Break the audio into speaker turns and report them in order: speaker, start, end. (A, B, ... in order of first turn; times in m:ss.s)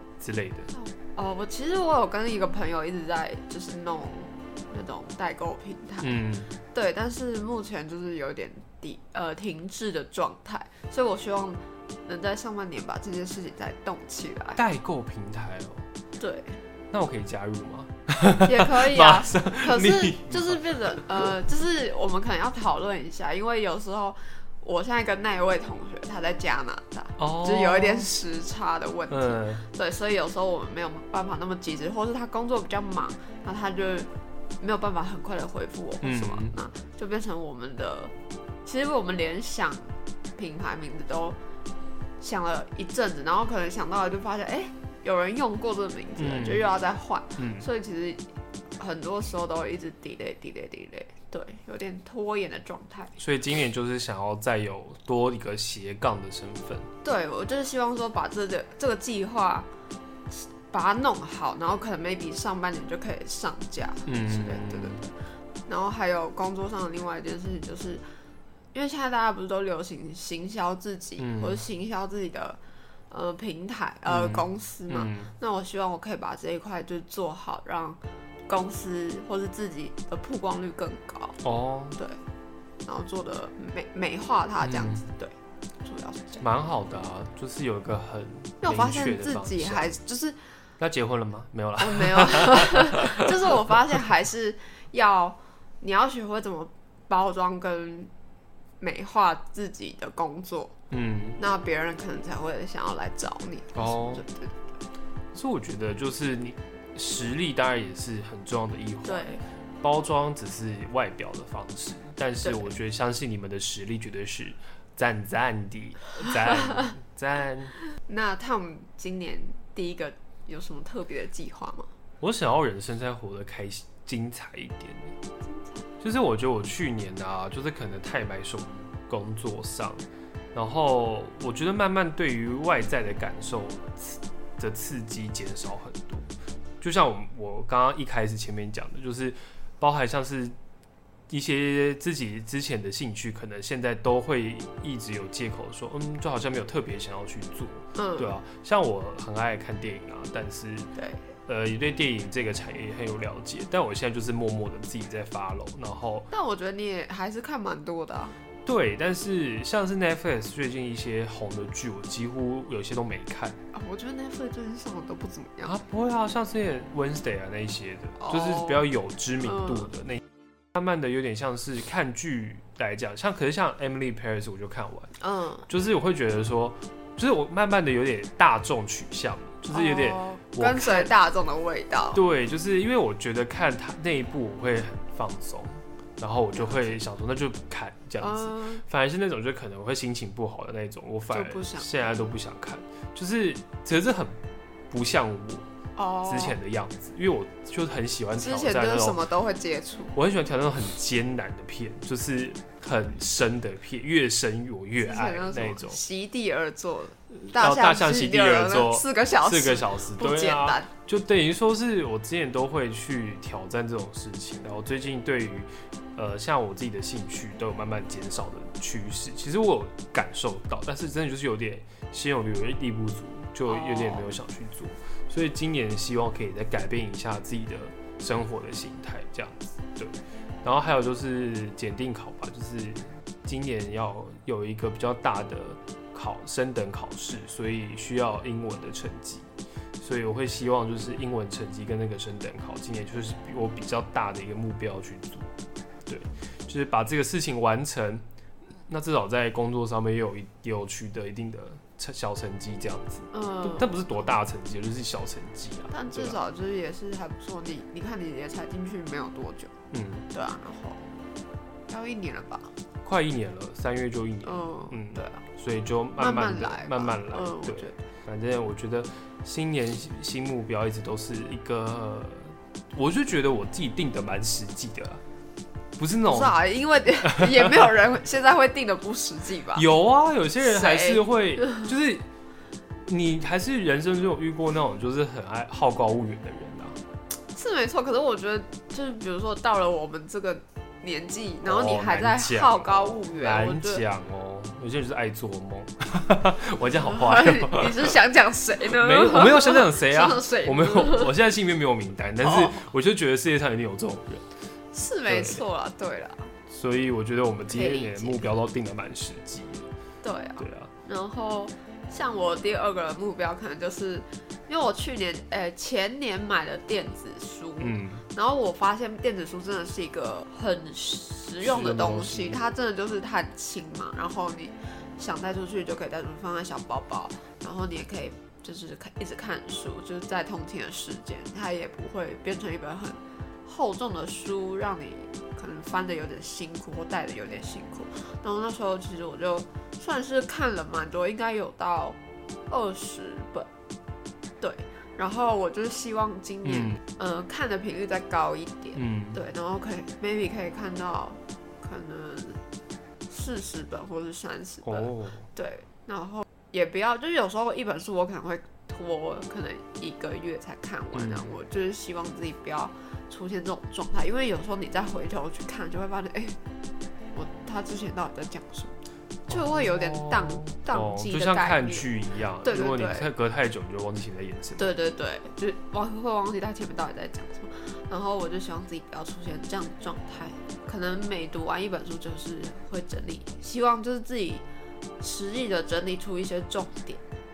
0:00.2-0:00.7 A
0:00.7-0:06.2 B
0:06.0-0:06.5 A
0:06.7-0:14.6 B
0:14.6-0:15.9 A
0:16.2-0:16.6 B
0:16.9-0:21.3 A
0:18.4-0:34.1 B
0:27.2-0:28.1 A
0:29.1-0:29.6 A
0:34.6-0:38.1 B
0:36.0-0:36.6 A
0:38.6-0:41.4 B
0:42.2-0:48.3 B
0:46.2-0:46.7 A
0:47.4-0:47.7 A
0:48.8-0:53.2 B
0:53.2-0:56.9 A
0:57.0-0:59.7 B
1:00.3-1:05.1 B
1:04.1-1:05.1 A
1:05.7-1:08.0 B
1:08.7-1:12.6 B
1:11.2-1:11.6 A
1:13.1-1:21.4 B
1:14.1-1:15.3 A
1:21.4-1:22.0 A
1:22.8-1:26.4 B
1:24.6-1:25.0 A
1:26.4-1:30.0 A
1:28.6-1:30.4 B
1:30.8-1:33.3 A
1:31.8-1:38.1 B
1:38.8-1:40.7 B
1:40.9-1:41.4 A
1:41.4-1:44.6 B
1:43.8-1:44.2 A
1:45.3-1:57.8 A
1:49.0-1:49.4 B
1:52.4-1:52.7 B
1:58.0-2:01.9 B
2:02.2-2:05.1 A
2:05.5-2:05.8 B
2:06.0-2:16.3 A
2:16.8-2:20.6 A
2:21.3-2:30.9 A
2:28.0-2:28.4 B
2:31.0-2:31.2 B
2:31.5-2:36.3 A
2:36.3-2:38.4 B
2:38.6-2:43.6 A
2:43.7-2:45.8 B
2:45.6-2:50.2 A
2:48.2-2:48.8 B
2:50.7-2:55.1 A
2:55.2-2:55.7 B
2:55.7-3:01.1 A
2:59.7-3:02.2 B
3:02.1-3:14.4 A
3:06.6-3:07.0 B
3:08.2-3:08.8 B
3:11.3-3:12.1 B
3:14.9-3:15.7 A
3:16.0-3:16.6 B
3:16.2-3:19.2 A
3:18.4-3:20.2 B
3:20.2-3:26.0 A
3:25.0-3:30.9 B
3:27.3-3:59.5 A
3:43.7-3:44.3 B
4:00.0-4:05.5 A
4:06.1-4:08.2 A
4:08.9-4:16.4 A
4:13.3-4:14.0 B
4:15.9-4:19.7 B
4:19.9-4:20.3 A
4:20.3-4:21.0 B
4:21.9-4:22.7 B
4:23.0-4:35.2 A
4:24.4-4:25.4 B
4:26.2-4:28.0 B
4:36.0-4:36.6 A
4:36.3-4:39.8 B
4:37.6-4:37.8 A
4:39.8-4:42.2 A
4:40.6-4:41.9 B
4:43.0-4:47.0 A
4:47.5-4:54.0 B
4:51.6-4:58.1 A
4:57.0-5:01.3 B
4:58.9-5:04.4 A
5:02.4-5:02.9 B
5:04.9-5:06.5 B
5:05.3-5:05.6 A
5:06.7-5:09.9 A
5:07.7-5:08.6 B
5:10.2-5:42.2 B
5:10.6-5:10.9 A
5:17.8-5:18.2 A
5:21.6-5:22.6 A
5:42.7-5:43.7 B
5:44.6-5:52.6 B
5:53.3-6:06.6 B
5:54.9-5:55.5 A
6:01.1-6:01.5 A
6:07.3-6:09.0 B
6:09.5-6:12.1 B
6:09.5-6:15.0 A
6:12.6-6:13.3 B
6:14.8-6:24.6 B
6:25.2-6:27.2 B